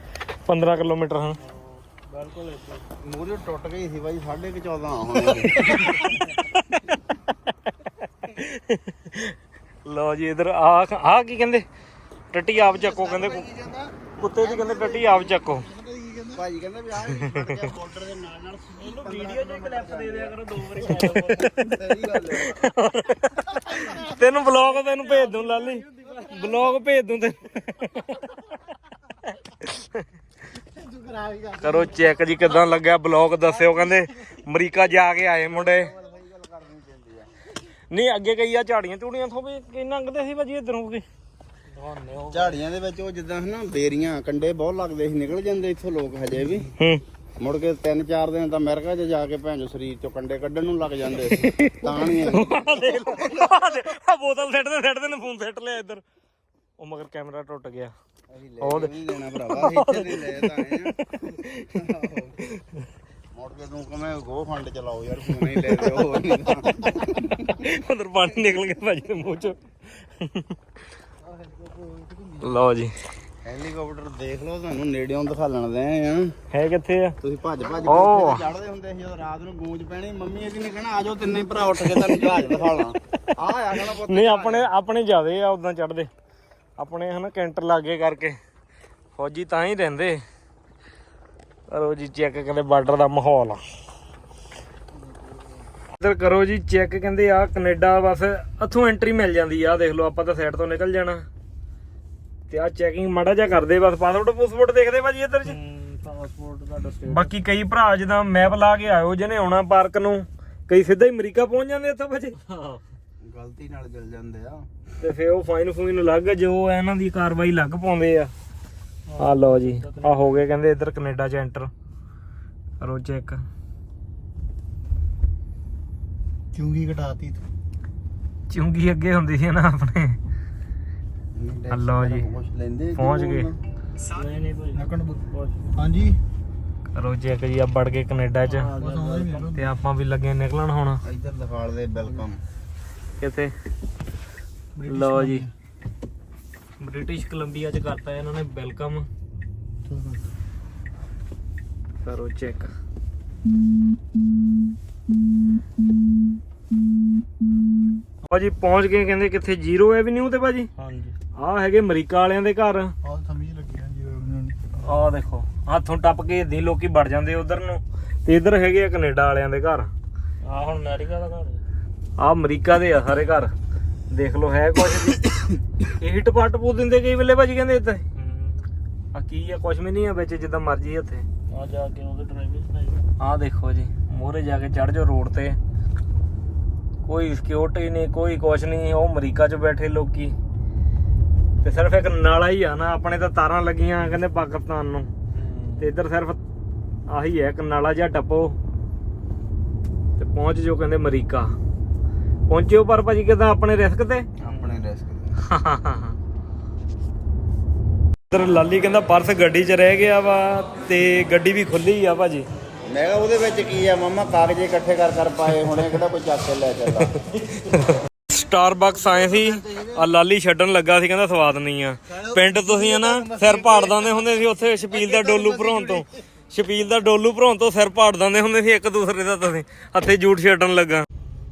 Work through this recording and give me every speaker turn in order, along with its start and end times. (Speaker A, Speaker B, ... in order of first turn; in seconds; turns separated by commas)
Speaker A: 0.5-1.4, Speaker B: 1.4-2.9, Speaker C: 3.0-5.8, Speaker A: 5.6-6.0, Speaker A: 8.2-11.6, Speaker A: 12.3-13.5, Speaker D: 12.5-16.4, Speaker A: 14.2-15.7, Speaker C: 16.3-22.7, Speaker B: 18.8-22.2, Speaker A: 22.4-28.2, Speaker D: 23.7-24.2, Speaker B: 24.5-26.2, Speaker D: 25.5-26.7, Speaker A: 29.3-30.0, Speaker D: 30.6-32.6, Speaker A: 31.6-35.9, Speaker D: 33.5-34.0, Speaker C: 35.4-37.3, Speaker A: 37.9-41.0, Speaker B: 41.7-42.5, Speaker C: 42.3-46.7, Speaker C: 47.4-53.6, Speaker A: 52.0-56.0, Speaker A: 56.8-57.9, Speaker C: 58.3-60.9, Speaker A: 58.6-61.7, Speaker C: 61.7-62.4, Speaker C: 63.3-67.6, Speaker A: 67.3-69.6, Speaker A: 70.2-70.5, Speaker D: 71.2-72.6, Speaker A: 72.4-72.9, Speaker C: 73.4-76.3, Speaker A: 76.5-77.1, Speaker C: 77.2-84.7, Speaker A: 77.8-78.5, Speaker A: 84.1-86.1, Speaker A: 86.8-88.4, Speaker A: 89.2-90.2, Speaker A: 91.7-93.6, Speaker A: 96.0-101.2, Speaker A: 102.5-105.5, Speaker B: 105.4-107.3, Speaker A: 107.1-112.8, Speaker C: 113.2-114.7, Speaker A: 115.0-118.3, Speaker B: 119.1-120.4, Speaker A: 119.2-121.7, Speaker A: 122.8-123.4, Speaker D: 126.5-127.4, Speaker A: 128.5-130.2, Speaker C: 131.3-133.6, Speaker A: 131.7-132.2, Speaker A: 133.0-133.5, Speaker D: 134.0-135.2, Speaker B: 134.1-135.6, Speaker D: 135.7-136.2, Speaker A: 136.9-138.7, Speaker B: 138.5-139.5, Speaker D: 138.5-139.7, Speaker A: 139.5-141.0, Speaker C: 141.0-142.4, Speaker A: 143.2-143.5, Speaker D: 144.7-145.5, Speaker A: 144.9-145.4, Speaker A: 146.8-149.1, Speaker D: 149.9-150.2, Speaker A: 152.0-152.7, Speaker A: 158.2-160.7, Speaker B: 160.8-161.1, Speaker A: 161.3-162.9, Speaker D: 163.0-164.9, Speaker A: 164.8-169.9, Speaker B: 170.4-171.6, Speaker A: 172.2-173.5, Speaker A: 174.1-175.4, Speaker A: 176.0-178.0, Speaker B: 178.1-178.7, Speaker A: 179.1-181.2, Speaker B: 181.5-183.1, Speaker A: 183.2-185.6, Speaker A: 187.0-190.3, Speaker A: 191.6-195.1, Speaker B: 195.3-195.9, Speaker A: 195.8-196.4, Speaker A: 197.1-198.6, Speaker A: 200.2-201.5, Speaker A: 202.5-204.3, Speaker C: 204.4-205.3, Speaker A: 205.5-206.2, Speaker A: 208.3-212.4, Speaker C: 212.9-217.2, Speaker A: 217.6-231.1, Speaker D: 219.1-220.0, Speaker D: 222.1-224.3, Speaker D: 224.8-226.0